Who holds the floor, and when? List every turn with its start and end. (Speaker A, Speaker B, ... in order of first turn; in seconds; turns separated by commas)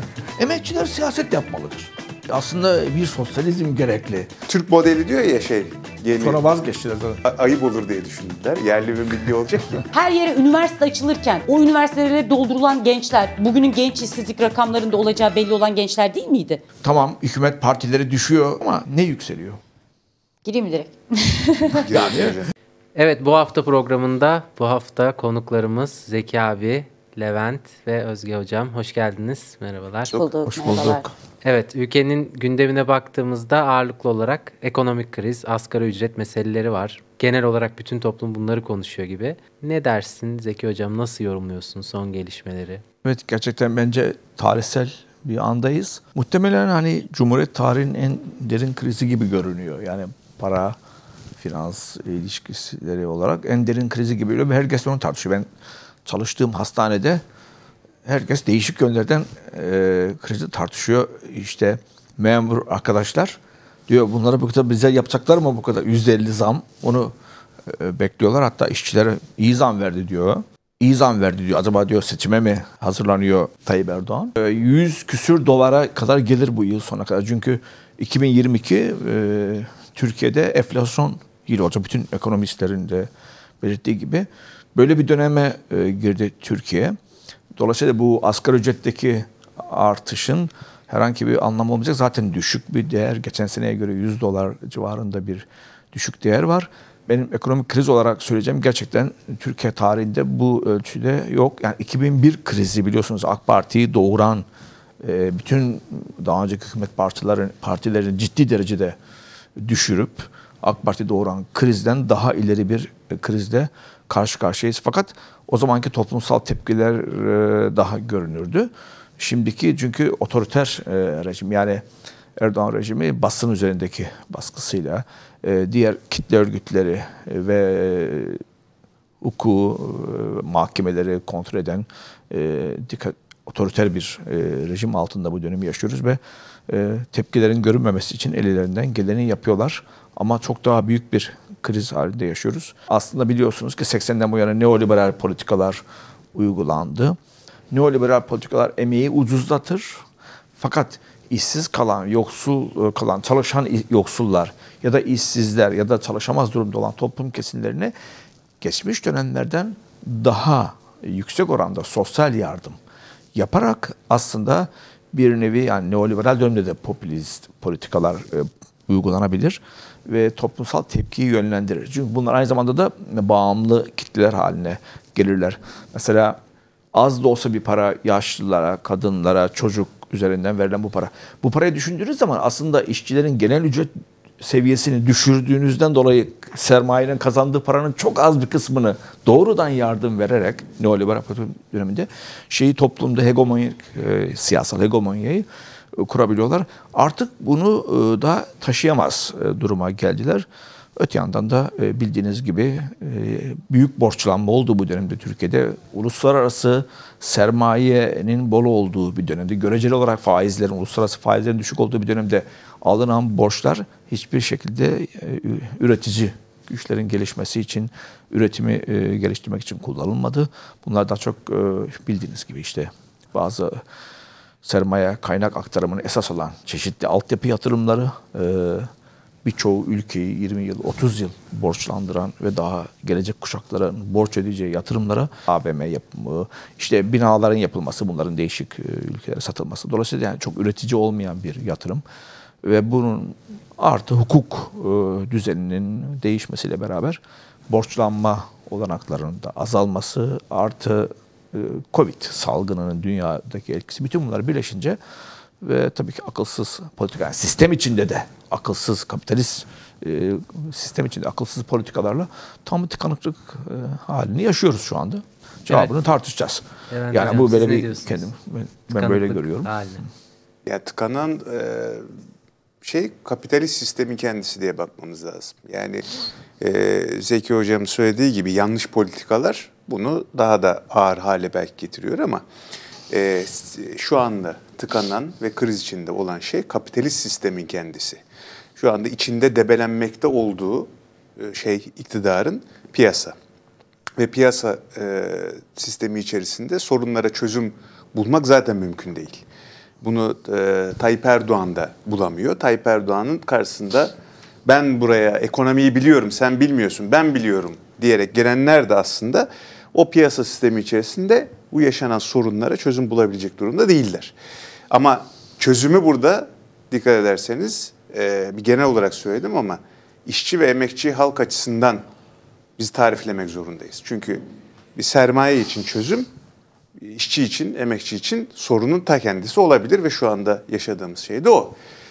Speaker A: 0.4-4.3, Speaker B: 4.5-6.4, Speaker A: 6.2-7.2, Speaker B: 7.2-9.8, Speaker C: 9.9-16.6, Speaker A: 16.8-19.6, Speaker C: 20.4-21.9, Speaker B: 21.8-22.5, Speaker A: 21.9-22.4, Speaker D: 22.9-30.2, Speaker C: 30.1-31.0, Speaker A: 30.5-31.1, Speaker D: 31.4-42.8, Speaker A: 43.0-50.8, Speaker A: 51.4-55.5, Speaker A: 56.0-57.2, Speaker A: 58.0-67.1, Speaker A: 67.7-83.1, Speaker A: 83.6-87.0, Speaker A: 87.5-104.4, Speaker A: 105.0-109.0, Speaker A: 109.6-121.8, Speaker A: 122.4-128.4, Speaker A: 129.2-145.8, Speaker A: 146.3-147.2, Speaker A: 147.7-150.0, Speaker A: 150.6-157.9, Speaker A: 158.6-162.8, Speaker A: 163.3-176.4, Speaker A: 176.9-183.9, Speaker A: 184.4-200.4, Speaker A: 201.0-223.8, Speaker A: 224.6-228.9, Speaker A: 229.4-242.0, Speaker A: 242.6-255.0, Speaker A: 255.6-269.7, Speaker D: 265.7-265.9, Speaker D: 266.9-268.2, Speaker D: 268.9-270.1, Speaker B: 270.6-272.1, Speaker B: 272.8-276.0, Speaker B: 276.6-282.4, Speaker B: 283.1-288.2, Speaker B: 288.8-293.3, Speaker B: 294.2-299.4, Speaker B: 300.0-304.1, Speaker B: 304.6-314.3, Speaker B: 314.9-322.0, Speaker B: 322.8-324.4, Speaker B: 324.9-326.3, Speaker B: 327.0-331.7